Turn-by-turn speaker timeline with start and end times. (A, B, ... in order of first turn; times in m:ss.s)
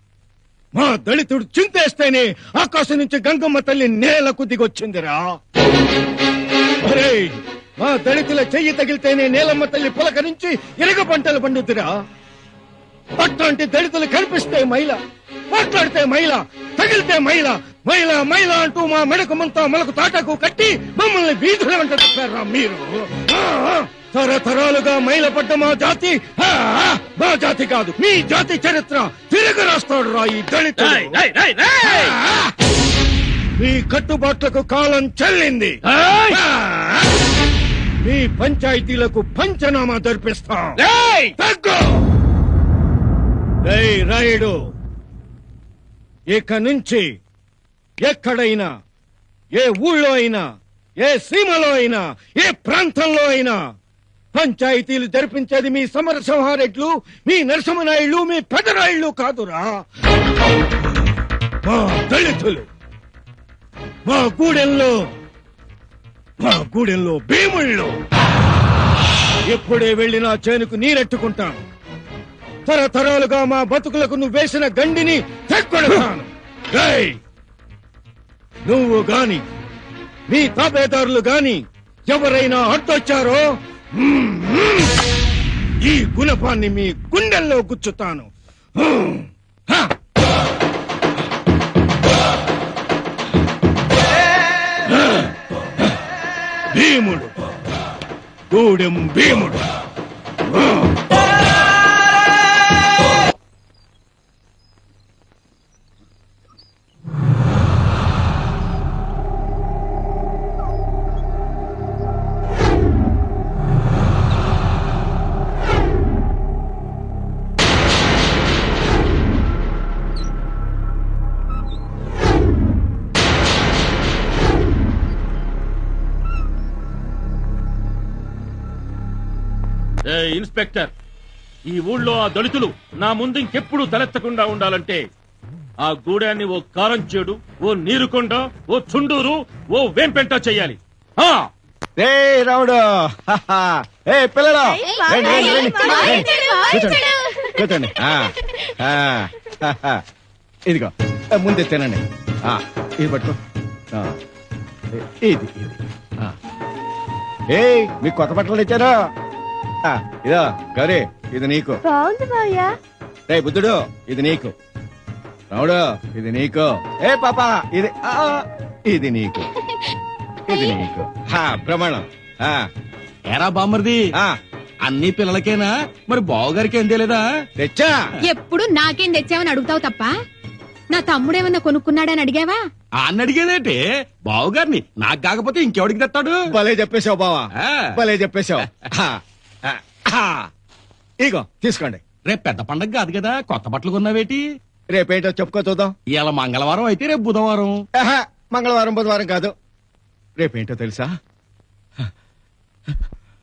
0:00.8-0:05.2 A
0:06.8-0:11.9 A
0:13.2-0:15.0 A
0:15.5-0:31.2 A
0:30.8-0:32.2 B
0:33.6-0:35.8 A
0:35.9-0:36.4 B
0:36.3-0:37.0 A
0:38.0-0:40.8 A
0:40.8-0:41.3 B
0:41.4-0:42.0 A
0:43.6-0:44.5 A
0:46.3-0:47.1 A
0:48.0-0:48.7 A
0:49.6-0:50.4 A
0:51.0-0:53.6 A
0:54.3-0:59.7 A
1:01.6-1:02.6 A
1:04.1-1:04.9 A
1:06.4-1:07.9 A
1:09.5-1:11.6 A
1:12.6-1:17.2 A
1:18.6-1:19.4 A
1:20.3-1:23.4 A
1:23.9-1:24.9 A
1:25.8-1:29.9 A
1:36.7-1:37.3 A
1:38.5-1:39.6 A
2:10.1-2:10.9 B
2:11.7-2:15.0 B
2:15.8-2:21.4 B
2:22.0-2:30.0 C
2:24.9-2:27.0 D
2:24.9-2:26.6 E
2:30.7-2:33.4 C
2:34.9-2:36.3 C
2:37.5-2:38.9 C
2:39.8-2:41.8 C
2:41.9-2:42.7 E
2:43.3-2:44.5 C
2:45.5-2:49.5 C
2:50.5-2:52.6 C
2:53.3-2:54.0 F
2:54.8-2:57.2 F
2:57.6-2:58.0 C
2:58.2-3:00.1 D
3:00.9-3:02.6 D
3:03.0-3:06.5 F
3:06.5-3:10.4 C
3:07.6-3:08.0 F
3:11.2-3:12.0 C
3:12.2-3:14.4 F
3:14.9-3:15.9 C
3:16.1-3:17.8 F
3:18.0-3:19.5 C
3:20.4-3:21.1 C